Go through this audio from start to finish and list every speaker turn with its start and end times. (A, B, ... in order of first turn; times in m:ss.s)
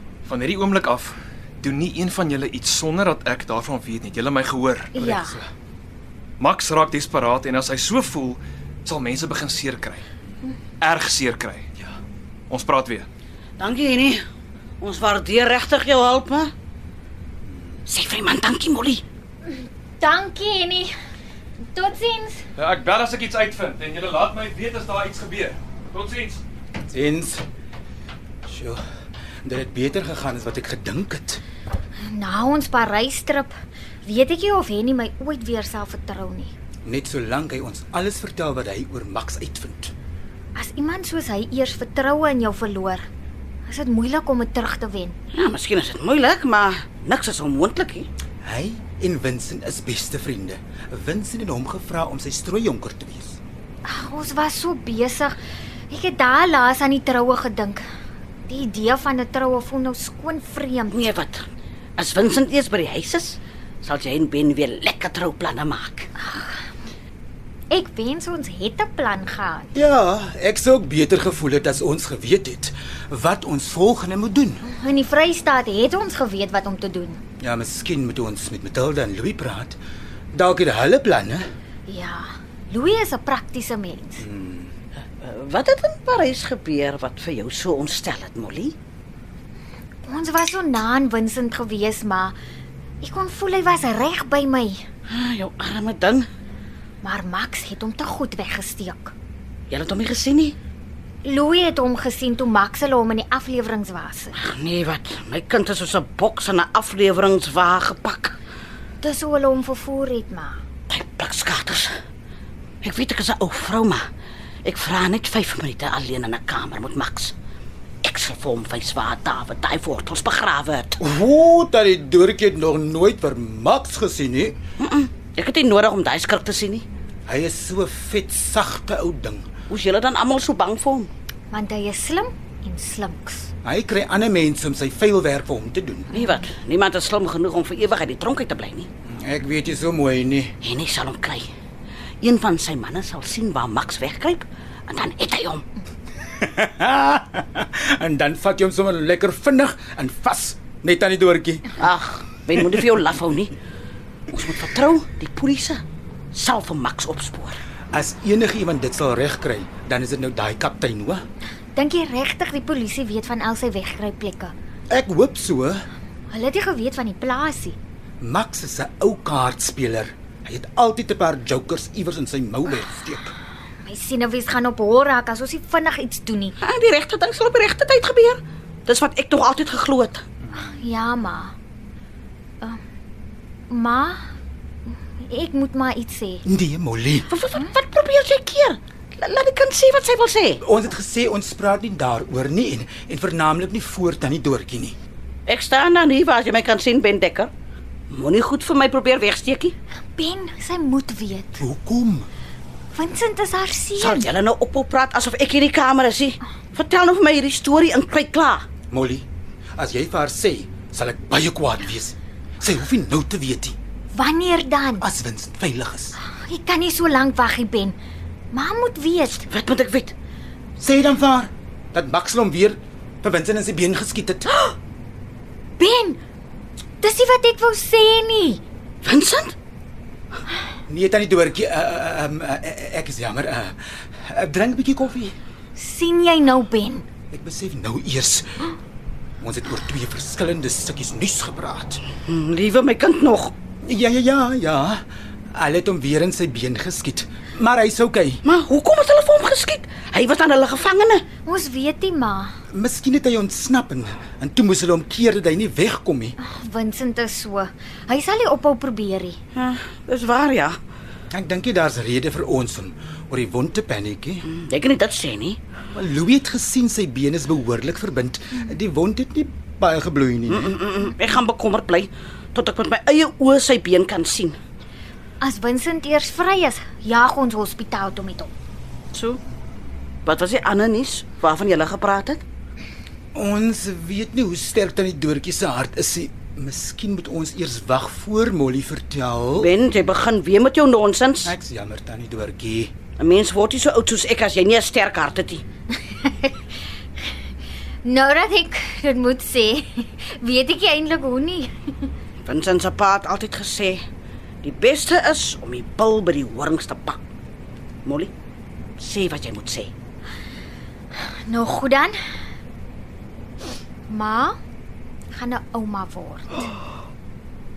0:00.2-0:04.9 A
0:04.9-0:05.4 B
0:05.0-0:05.5 C
0:06.4-0:10.0 A
0:10.8-0:11.6 A
0:12.5-0:13.1 A
0:13.6-0:14.2 D
0:14.8-0:16.5 D
0:17.9-0:19.0 D
0:19.5-0:20.9 B
0:21.6-0:22.4 B
0:22.6-0:26.4 A
0:26.9-0:27.4 C
0:28.4-0:28.8 C
0:29.4-0:31.4 C
0:32.0-0:33.5 B
0:34.0-0:36.5 B
0:36.8-0:39.9 C
0:40.5-0:43.0 B
0:43.7-0:45.2 B
0:45.3-0:48.1 D
0:48.4-0:53.4 C
0:53.8-0:55.4 B
0:55.9-0:57.8 B
0:58.5-1:01.1 B
1:00.9-1:06.1 D
1:06.2-1:06.6 B
1:07.7-1:09.7 B
1:09.7-1:14.6 C
1:14.6-1:17.2 B
1:17.4-1:19.8 C
1:20.3-1:21.5 C
1:21.9-1:24.2 B
1:24.2-1:24.7 C
1:25.2-1:28.8 D
1:30.0-1:32.3 B
1:33.0-1:34.8 B
1:35.1-1:36.3 D
1:37.0-1:39.1 B
1:39.7-1:40.6 D
1:41.2-1:44.3 B
1:44.4-1:48.4 D
1:49.0-1:50.6 B
1:50.9-1:51.9 D
1:52.8-1:54.0 D
1:54.6-1:57.3 D
1:58.0-2:01.0 D
2:01.0-2:04.6 C
2:04.8-2:06.8 D
2:07.3-2:09.5 C
2:09.7-2:11.1 D
2:11.5-2:13.5 B
2:13.6-2:16.1 C
2:16.1-2:18.9 D
2:19.1-2:20.5 C
2:20.6-2:21.5 D
2:22.2-2:25.6 D
2:26.4-2:31.7 C
2:31.8-2:33.5 D
2:34.3-2:37.6 D
2:37.9-2:41.2 C
2:41.7-2:44.5 B
2:44.9-2:45.8 C
2:46.3-2:47.8 B
2:48.2-2:53.3 C
2:53.8-2:56.6 B
2:56.6-3:00.2 D
3:00.5-3:01.5 B
3:03.7-3:04.3 B
3:04.9-3:06.4 B
3:06.4-3:07.3 C
3:07.3-3:10.6 D
3:10.6-3:15.0 C
3:15.4-3:17.5 D
3:18.1-3:19.7 D
3:20.2-3:21.6 B
3:21.6-3:22.3 C
3:22.9-3:24.3 B
3:24.0-3:28.6 D
3:28.9-3:29.2 C
3:29.8-3:33.7 C
3:34.1-3:35.0 B
3:35.0-3:36.2 C
3:36.2-3:38.0 B
3:38.5-3:39.4 B
3:39.4-3:40.1 D
3:40.8-3:44.7 C
3:45.8-3:46.2 B
3:47.0-3:48.6 B
3:49.0-3:49.5 D
3:50.9-3:55.3 C
3:55.8-3:57.0 B
3:57.3-3:58.7 C
3:59.4-4:02.0 C
4:02.2-4:03.5 D
4:03.8-4:08.4 C
4:08.4-4:11.2 D
4:11.4-4:12.5 B
4:12.7-4:16.4 C
4:16.4-4:19.4 B
4:19.5-4:20.8 D
4:21.3-4:24.4 C
4:24.4-4:25.6 D
4:25.9-4:30.8 C
4:30.5-4:34.6 D
4:35.4-4:38.5 B
4:39.1-4:39.4 D
4:40.2-4:42.4 D
4:43.3-4:49.7 C
4:49.6-4:51.5 D
4:51.4-4:52.9 C
4:53.2-4:55.6 D
4:56.2-4:56.5 B
4:58.0-5:01.7 B
5:02.4-5:04.0 D
5:04.6-5:07.2 D
5:08.0-5:08.3 D
5:09.0-5:09.9 D
5:11.4-5:12.1 B
5:14.1-5:14.6 B
5:15.3-5:16.6 B